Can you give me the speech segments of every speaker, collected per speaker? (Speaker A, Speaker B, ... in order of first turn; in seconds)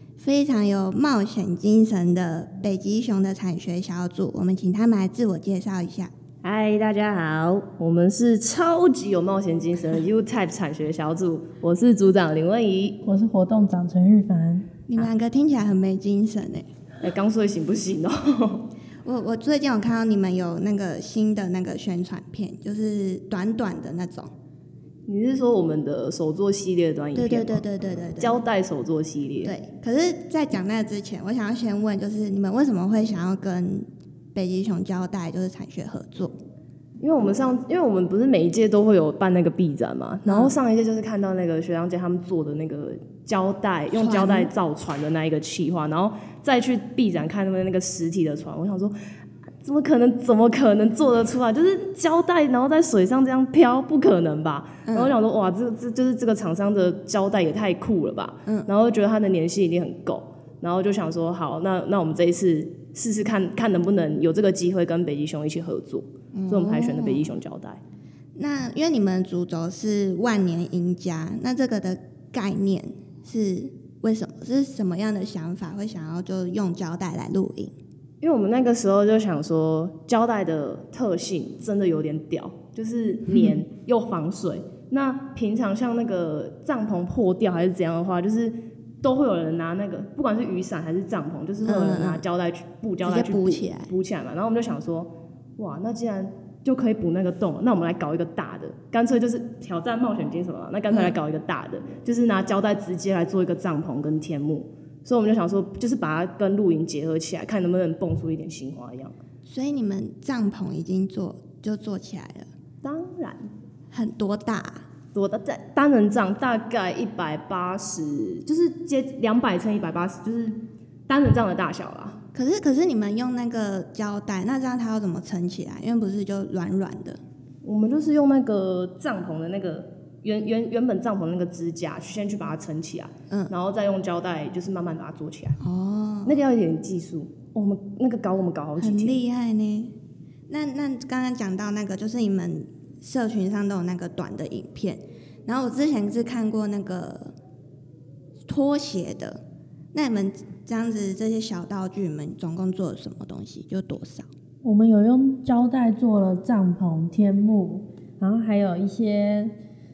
Speaker A: 0.2-6.1, 14.9-16.7, 19.1-24.3, 27.1-28.4, 29.4-36.4, 40.2-40.5, 43.9-44.5, 54.9-55.1, 66.3-67.3, 68.4-77.7, 91.6-92.2, 93.0-93.9, 100.9-101.2, 109.5-112.5, 113.9-114.8, 122.3-127.2, 135.6-136.4, 138.8-139.9, 140.5-147.3, 148.5-154.3
Speaker B: 6.4-13.0, 17.0-18.6, 25.1-27.6, 28.2-29.6, 37.0-49.0, 49.6-67.8, 78.2-109.2, 112.8-113.5, 115.1-122.2, 127.6-135.6, 136.2-139.2
Speaker C: 13.0-14.7, 154.6-159.5